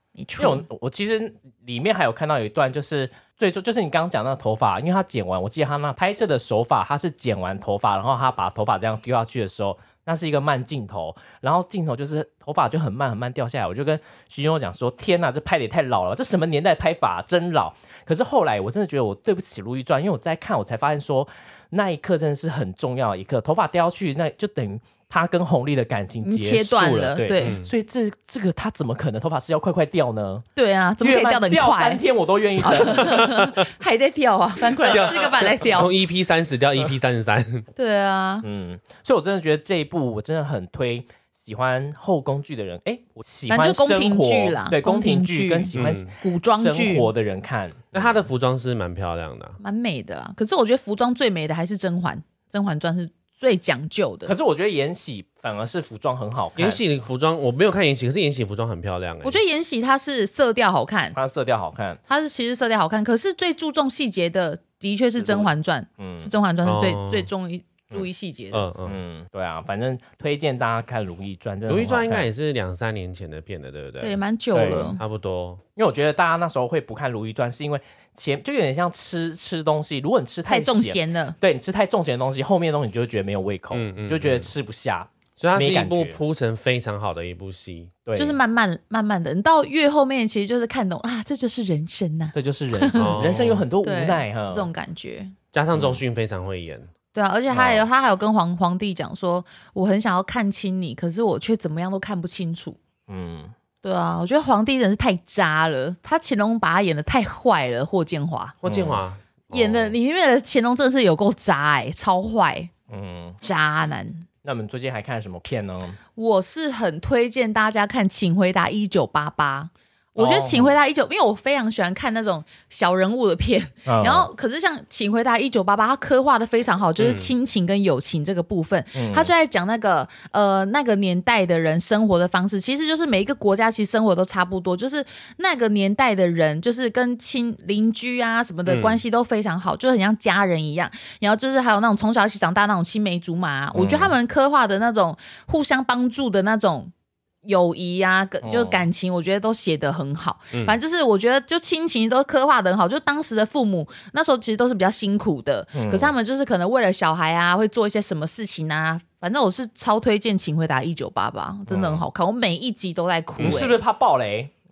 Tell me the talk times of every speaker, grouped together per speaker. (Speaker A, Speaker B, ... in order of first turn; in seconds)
Speaker A: 0.1-0.6, 26.2-27.6, 30.6-32.0, 32.6-35.9, 37.8-38.4, 43.5-47.1, 49.6-54.3, 59.2-61.1, 62.1-68.7, 74.0-75.0, 80.5-81.3, 88.2-93.2, 93.8-95.3, 97.1-102.8, 103.8-108.6, 109.5-112.7, 113.4-114.3, 116.2-146.9, 147.4-163.8
Speaker B: 0.4-30.5, 31.0-33.5, 38.4-48.2, 54.2-56.8, 61.1-62.0, 65.2-66.3, 68.8-72.2, 74.5-75.0, 75.8-86.2, 88.0-88.4, 92.3-94.7, 95.7-96.0, 97.5-97.8, 103.1-103.5, 108.7-109.0, 112.9-113.4, 114.4-116.0, 120.2-120.8, 123.8-124.3, 128.9-129.3, 143.7-144.1, 148.4-148.8, 155.7-156.1, 161.7-162.0, 163.4-164.5
Speaker C: 27.4-27.7, 34.9-37.7, 45.7-46.1, 47.9-49.6, 56.5-59.4, 66.6-67.3, 68.5-69.0, 71.7-74.2, 75.0-75.6, 83.7-84.5, 85.4-87.9, 93.0-93.6, 95.5-96.9, 108.6-109.9, 127.0-127.3, 138.7-139.0, 163.4-163.7